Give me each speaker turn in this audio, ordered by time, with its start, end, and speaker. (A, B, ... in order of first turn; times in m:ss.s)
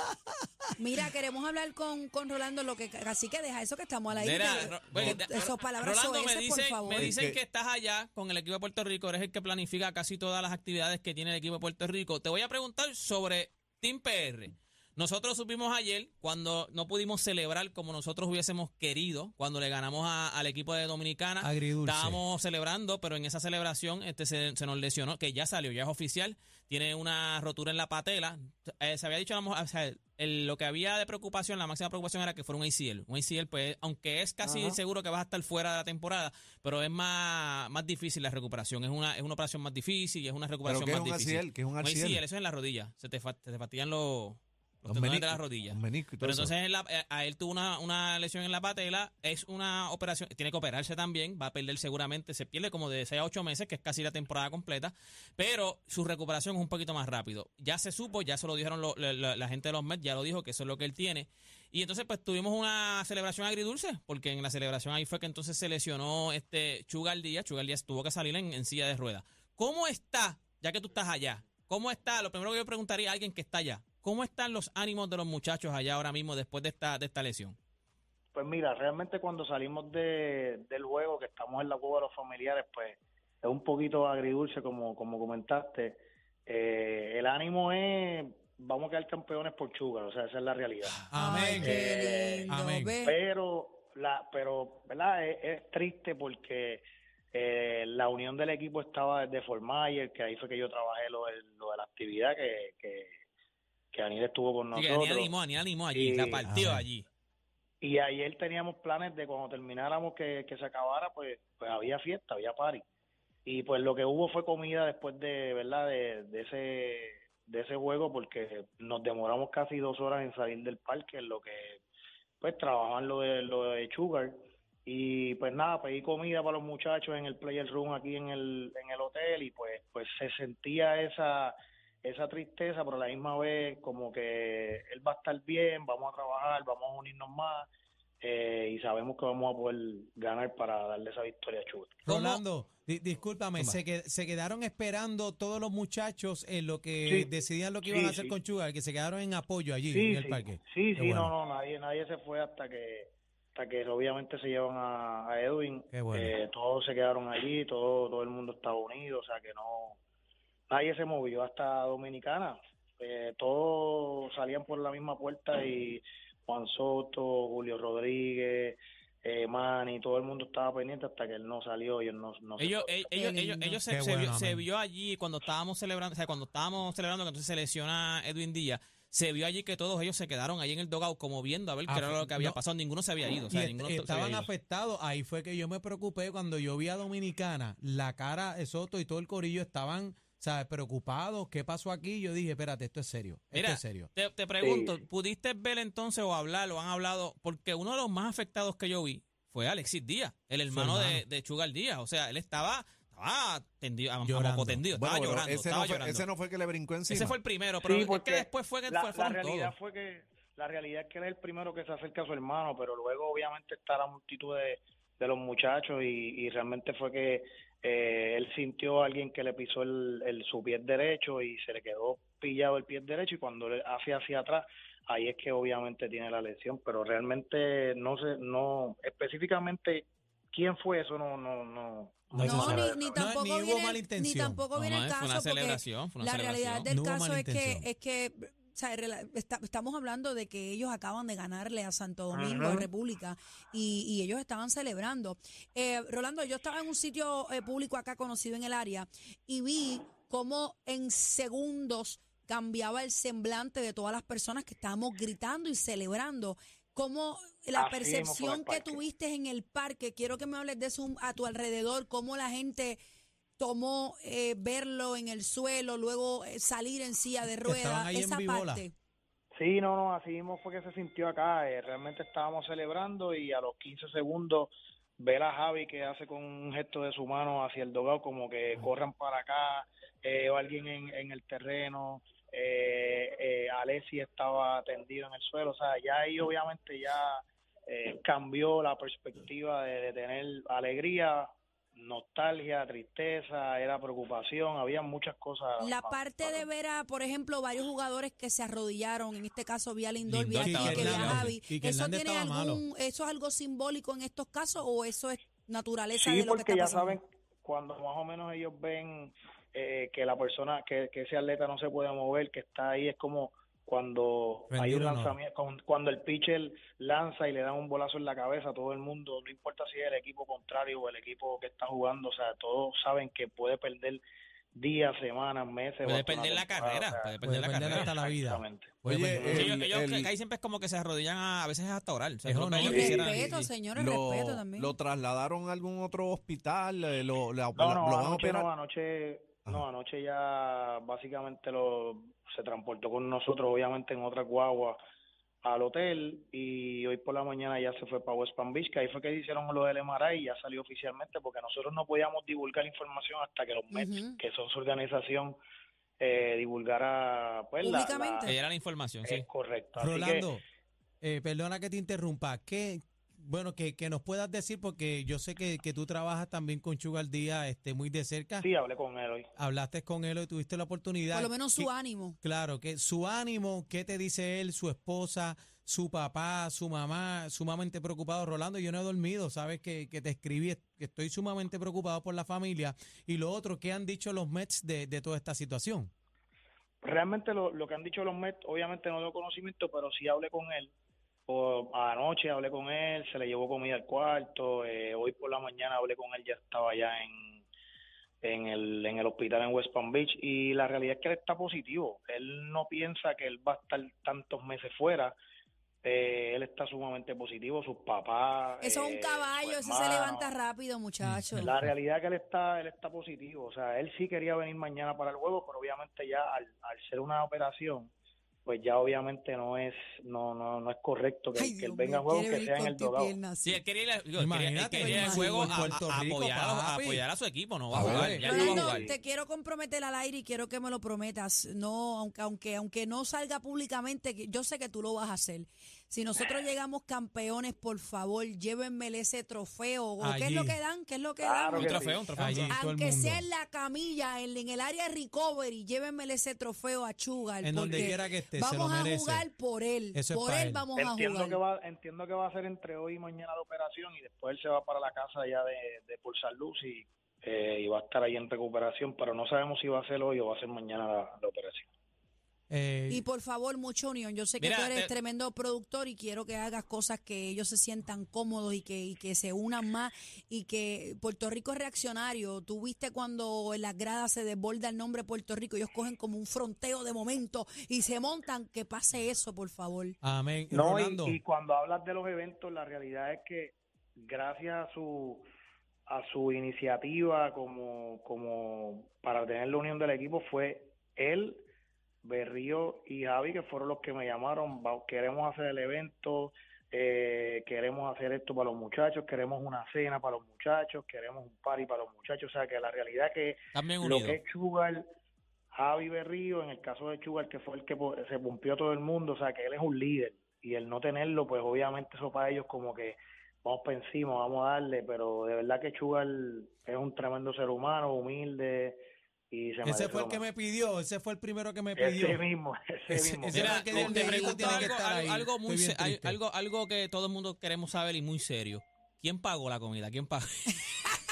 0:00.8-0:07.1 A
0:04.1-1:17.6 B
0:04.8-0:05.2 C
0:06.9-0:07.4 C
0:21.4-0:22.2 D
0:34.4-0:34.8 C
0:40.6-0:42.2 C
0:44.8-0:46.5 C
1:18.3-1:31.0 E
1:31.1-1:31.9 D
1:31.1-1:33.1 A
1:31.6-1:32.5 E
1:32.5-1:32.9 D
1:33.0-1:36.8 E
1:37.3-1:43.1 E
1:43.9-1:45.3 E
1:44.7-1:47.0 B
1:45.9-1:46.5 E
1:46.5-1:46.8 D
1:47.8-1:52.8 E
1:53.4-2:01.8 E
2:02.4-2:17.7 E
2:18.2-2:22.0 E
2:22.0-2:31.3 D
2:22.1-2:22.4 B
2:27.8-2:28.3 E
2:29.9-2:40.0 E
2:35.9-2:36.3 D
2:40.7-2:53.0 E
2:52.6-3:04.5 B
2:53.1-2:53.7 A
2:53.8-2:54.6 D
3:01.9-3:02.6 D
3:03.5-3:14.1 D
3:13.5-3:26.3 B
3:14.6-3:14.9 E
3:20.7-3:21.2 D
3:24.2-3:24.8 D
3:24.9-3:27.4 C
3:27.1-3:29.7 B
3:27.8-3:53.3 E
3:52.3-3:54.6 D
3:52.4-4:23.0 A
3:54.7-3:56.9 B
3:56.9-3:57.9 D
4:02.3-4:02.9 E
4:17.7-4:19.0 E
4:23.6-4:28.9 A
4:27.6-4:28.8 D
4:29.5-4:56.7 E
4:55.8-5:07.2 A
5:00.3-5:01.5 B
5:00.3-5:02.8 D
5:06.1-5:24.2 E
5:14.7-5:15.4 D
5:24.7-5:27.3 E
5:26.0-5:28.1 B
5:27.4-5:29.6 D
5:27.8-5:29.7 E
5:29.0-5:30.3 C
5:29.5-5:33.7 B
5:32.4-5:33.4 D
5:32.8-5:34.9 A
5:33.9-5:38.7 C
5:37.7-5:45.0 E
5:45.6-5:55.6 E
5:53.9-5:54.4 A
5:56.2-5:58.5 E
5:57.8-5:58.5 A
5:58.4-5:59.4 B
5:59.2-6:00.4 E
6:00.0-6:00.6 D
6:01.2-6:08.7 D
6:08.6-6:09.5 E
6:09.6-6:11.9 D
6:11.3-6:12.4 A
6:12.4-6:26.1 D
6:27.0-6:30.9 E
6:31.5-6:37.6 E
6:38.4-6:45.3 E
6:46.0-6:50.5 E
6:48.8-6:51.7 A
6:51.2-6:51.9 D
6:51.6-6:58.1 E
6:58.6-7:03.3 E
7:01.5-7:03.8 A
7:03.6-7:09.1 B
7:04.4-7:07.2 D
7:05.0-7:05.9 A
7:07.9-7:08.5 D
7:07.9-7:09.2 E
7:08.4-7:22.0 A
7:20.2-7:20.8 D
7:21.4-7:22.3 E
7:21.7-7:22.8 B
7:22.3-7:23.4 D
7:22.7-7:31.6 A
7:27.6-7:29.5 D
7:30.1-7:30.8 D
7:31.0-7:41.9 E
7:42.7-7:43.2 D
7:43.1-8:00.2 A
7:44.6-7:45.1 B
8:00.2-8:01.4 D
8:00.7-8:05.4 E
8:06.1-8:11.6 E
8:12.2-8:25.0 E
8:23.7-8:24.4 B
8:25.7-8:39.0 E
8:39.5-8:40.4 E
8:39.8-8:42.4 D
8:42.0-8:44.8 E
8:43.1-8:46.4 D
8:43.5-8:50.9 B
8:44.2-8:44.6 A